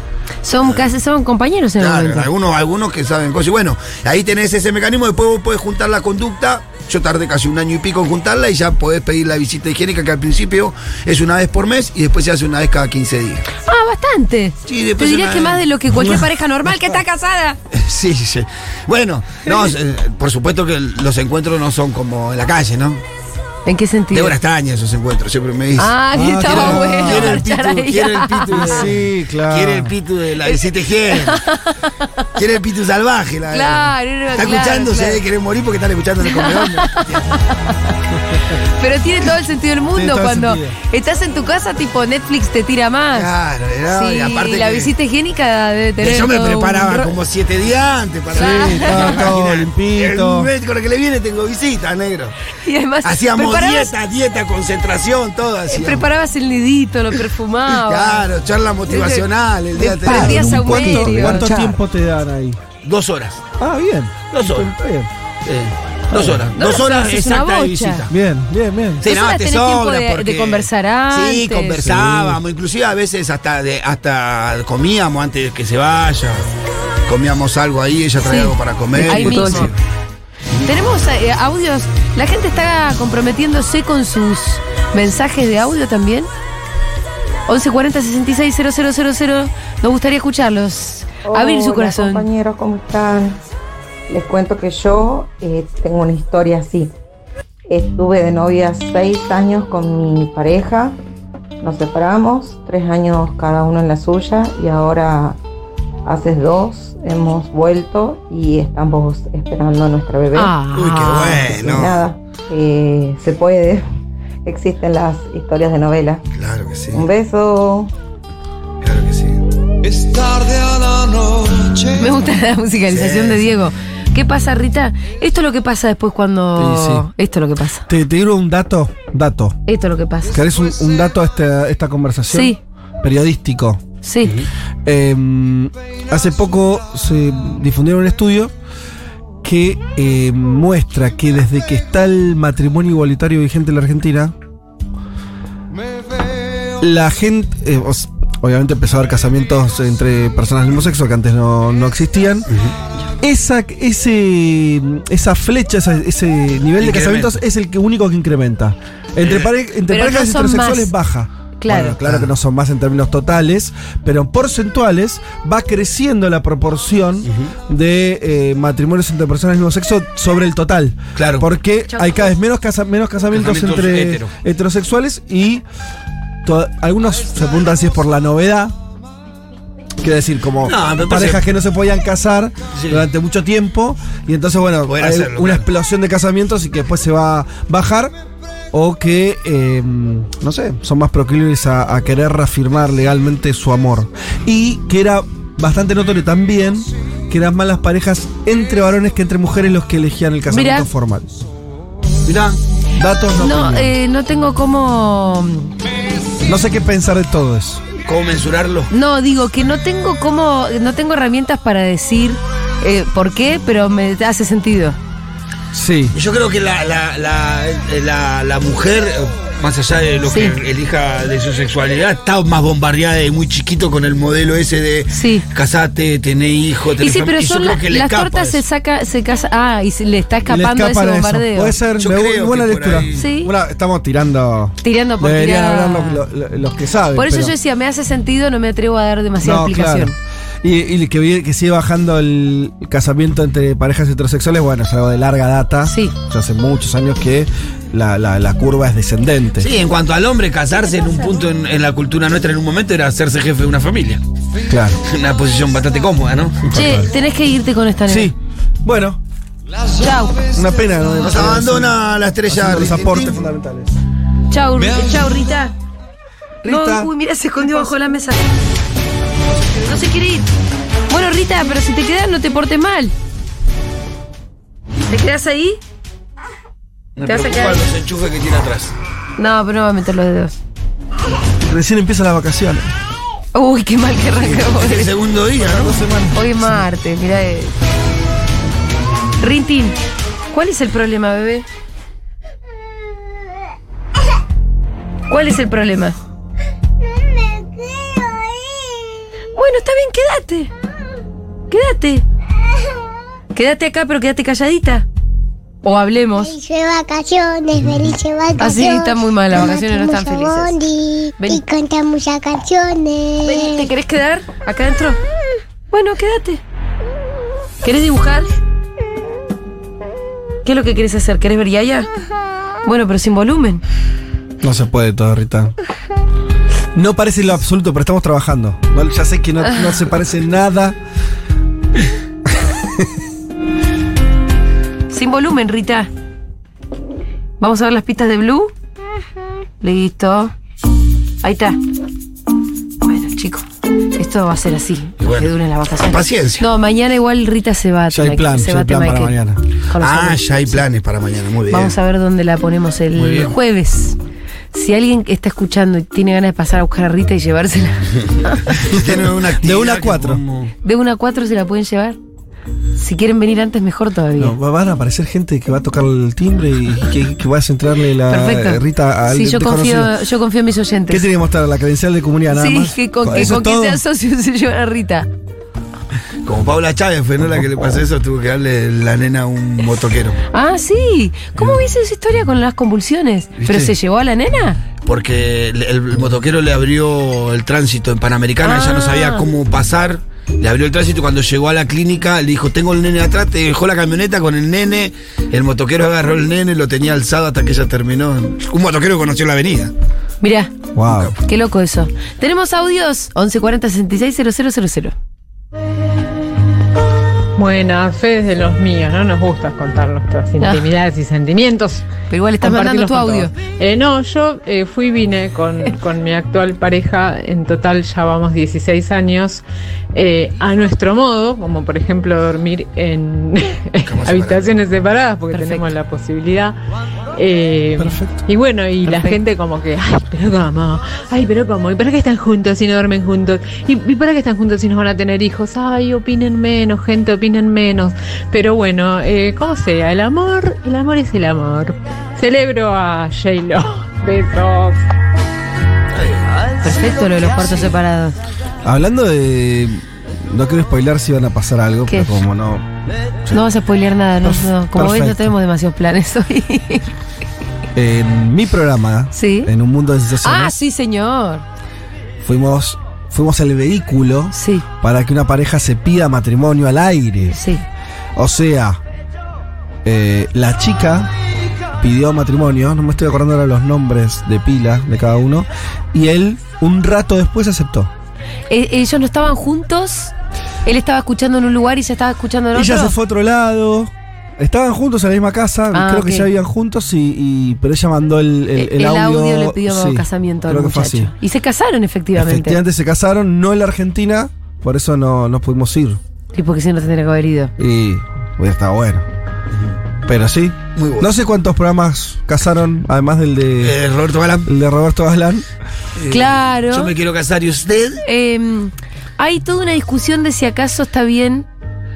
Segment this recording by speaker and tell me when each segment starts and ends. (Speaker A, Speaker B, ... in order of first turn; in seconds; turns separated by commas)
Speaker A: 0.4-2.3, Speaker B: 1.8-13.4, Speaker A: 13.6-17.6, Speaker B: 14.7-16.1, Speaker B: 17.7-23.0, Speaker A: 23.6-24.3, Speaker B: 24.1-31.4, Speaker A: 25.8-28.9, Speaker C: 26.1-27.4, Speaker C: 28.5-29.9, Speaker A: 31.1-32.2, Speaker B: 32.4-37.4, Speaker A: 33.5-35.2, Speaker A: 36.2-37.8, Speaker A: 38.7-43.3, Speaker C: 39.9-40.8, Speaker B: 43.1-44.9, Speaker A: 43.9-47.1, Speaker B: 46.0-52.3, Speaker C: 48.3-50.5, Speaker A: 48.3-49.3, Speaker A: 52.6-53.9, Speaker B: 53.0-56.0, Speaker A: 55.7-58.2, Speaker B: 57.7-61.5, Speaker A: 58.9-61.8, Speaker C: 60.0-62.6, Speaker B: 62.8-63.4, Speaker C: 63.6-65.1, Speaker B: 64.3-64.7, Speaker B: 65.4-68.1, Speaker A: 66.1-68.0, Speaker C: 68.1-69.0, Speaker B: 69.0-76.4, Speaker A: 69.0-71.9, Speaker C: 71.8-72.4, Speaker B: 77.1-79.8, Speaker A: 78.2-79.7, Speaker C: 79.0-79.7, Speaker A: 80.6-86.3, Speaker A: 87.5-92.2, Speaker D: 91.2-93.4, Speaker D: 94.1-96.9, Speaker D: 97.7-101.0, Speaker D: 101.6-105.4, Speaker D: 106.0-110.5, Speaker A: 110.3-111.5, Speaker B: 110.7-112.0, Speaker D: 111.5-113.8, Speaker D: 114.4-116.2, Speaker B: 116.3-117.0, Speaker D: 116.9-117.9, Speaker B: 118.8-119.4, Speaker A: 121.9-127.8, Speaker B: 122.9-123.5, Speaker C: 126.5-127.1, Speaker C: 127.9-129.6, Speaker A: 129.7-130.4, Speaker C: 130.3-133.8, Speaker A: 132.3-132.6, Speaker A: 134.0-134.3, Speaker C: 134.8-138.5, Speaker C: 139.4-144.3, Speaker C: 146.8-152.5, Speaker B: 152.5-152.7, Speaker C: 153.2-175.6, Speaker B: 156.8-157.4, Speaker B: 159.2-159.5, Speaker A: 159.9-160.9, Speaker A: 161.6-162.0, Speaker B: 162.0-162.3, Speaker B: 167.2-167.5, Speaker B: 171.2-171.5, Speaker A: 171.9-172.3, Speaker B: 173.3-174.3, Speaker C: 176.4-178.7, Speaker C: 180.0-188.1, Speaker B: 180.6-181.4, Speaker B: 182.7-183.1, Speaker B: 184.9-185.7, Speaker C: 188.7-201.4, Speaker A: 200.5-200.9, Speaker B: 202.2-202.6, Speaker C: 203.0-203.9, Speaker A: 203.4-205.7, Speaker C: 206.4-207.8, Speaker B: 208.1-208.9, Speaker A: 208.9-215.0, Speaker C: 215.7-216.1, Speaker B: 216.1-228.6, Speaker A: 220.3-220.5, Speaker A: 225.1-225.4, Speaker A: 227.0-231.8, Speaker C: 230.5-237.5, Speaker B: 232.0-233.2, Speaker A: 233.1-233.5, Speaker A: 234.8-236.2, Speaker A: 237.2-240.1, Speaker C: 239.4-249.7, Speaker A: 245.8-246.1, Speaker B: 249.6-254.2, Speaker C: 254.7-255.0, Speaker B: 255.0-256.7, Speaker C: 256.7-257.1, Speaker A: 256.7-258.3, Speaker C: 258.1-259.2, Speaker A: 260.0-260.4, Speaker C: 260.5-261.9, Speaker B: 261.2-263.4, Speaker C: 262.5-263.9, Speaker A: 264.5-265.7, Speaker C: 266.6-267.1, Speaker A: 266.6-268.4, Speaker A: 269.8-270.5, Speaker A: 271.1-273.1, Speaker A: 275.1-275.8, Speaker B: 277.1-278.9, Speaker A: 277.2-277.8, Speaker A: 279.4-280.6, Speaker C: 281.7-282.9, Speaker A: 283.5-285.1, Speaker B: 284.4-286.0, Speaker C: 285.6-286.7, Speaker A: 286.3-287.7, Speaker A: 289.4-290.0, Speaker A: 290.5-291.6, Speaker A: 295.3-296.1, Speaker A: 299.5-300.7, Speaker A: 301.7-302.2, Speaker A: 303.5-305.1, Speaker A: 305.8-306.5, Speaker E: 306.4-313.9, Speaker A: 308.6-310.7, Speaker A: 313.4-315.2, Speaker A: 315.9-316.6, Speaker A: 317.8-318.5, Speaker A: 320.6-322.1, Speaker A: 322.8-323.8, Speaker C: 324.6-325.7, Speaker C: 326.9-331.0, Speaker A: 329.6-330.0, Speaker A: 335.1-336.1, Speaker A: 337.6-338.7, Speaker A: 339.8-340.5, Speaker A: 341.4-341.8, Speaker A: 343.0-350.4, Speaker B: 345.2-345.5, Speaker B: 346.0-346.6, Speaker C: 348.1-349.6, Speaker B: 350.0-351.9, Speaker A: 351.7-354.2, Speaker B: 353.1-353.5, Speaker A: 354.7-358.6, Speaker B: 358.7-360.7, Speaker C: 358.9-360.4, Speaker A: 360.8-362.2, Speaker A: 362.9-364.6, Speaker C: 364.4-370.1, Speaker A: 368.3-371.2, Speaker C: 371.1-374.0, Speaker A: 372.5-375.3, Speaker B: 376.4-380.4, Speaker A: 380.5-384.8, Speaker B: 383.6-383.9, Speaker B: 385.0-399.9, Speaker A: 388.6-389.4, Speaker A: 400.4-400.7, Speaker C: 400.9-401.3, Speaker B: 401.0-401.4, Speaker A: 401.4-405.1, Speaker F: 407.6-412.0, Speaker A: 410.6-410.9, Speaker A: 412.3-413.5, Speaker F: 412.6-419.6, Speaker F: 420.1-426.8, Speaker B: 424.0-424.8, Speaker A: 425.5-425.9, Speaker F: 427.4-445.0, Speaker C: 428.0-428.4, Speaker A: 429.0-429.4, Speaker B: 446.1-447.9, Speaker A: 446.8-448.4, Speaker C: 448.8-452.9, Speaker A: 452.1-452.3, Speaker A: 453.5-457.1, Speaker C: 454.4-455.5, Speaker C: 457.9-460.7, Speaker A: 459.3-459.7, Speaker A: 460.4-461.6, Speaker C: 462.4-467.6, Speaker A: 464.5-464.8, Speaker A: 467.5-467.8, Speaker C: 468.4-469.0, Speaker C: 470.0-471.3, Speaker C: 472.0-478.1, Speaker A: 478.7-480.3, Speaker A: 480.8-483.1, Speaker C: 482.7-491.3, Speaker A: 485.9-486.5, Speaker A: 488.8-492.8, Speaker C: 492.4-496.2, Speaker A: 496.5-497.7, Speaker C: 497.8-499.2, Speaker C: 500.2-504.0, Speaker B: 500.9-501.3, Speaker B: 503.8-504.7, Speaker C: 504.6-505.6, Speaker B: 506.2-508.2, Speaker A: 506.3-507.1, Speaker A: 508.2-511.6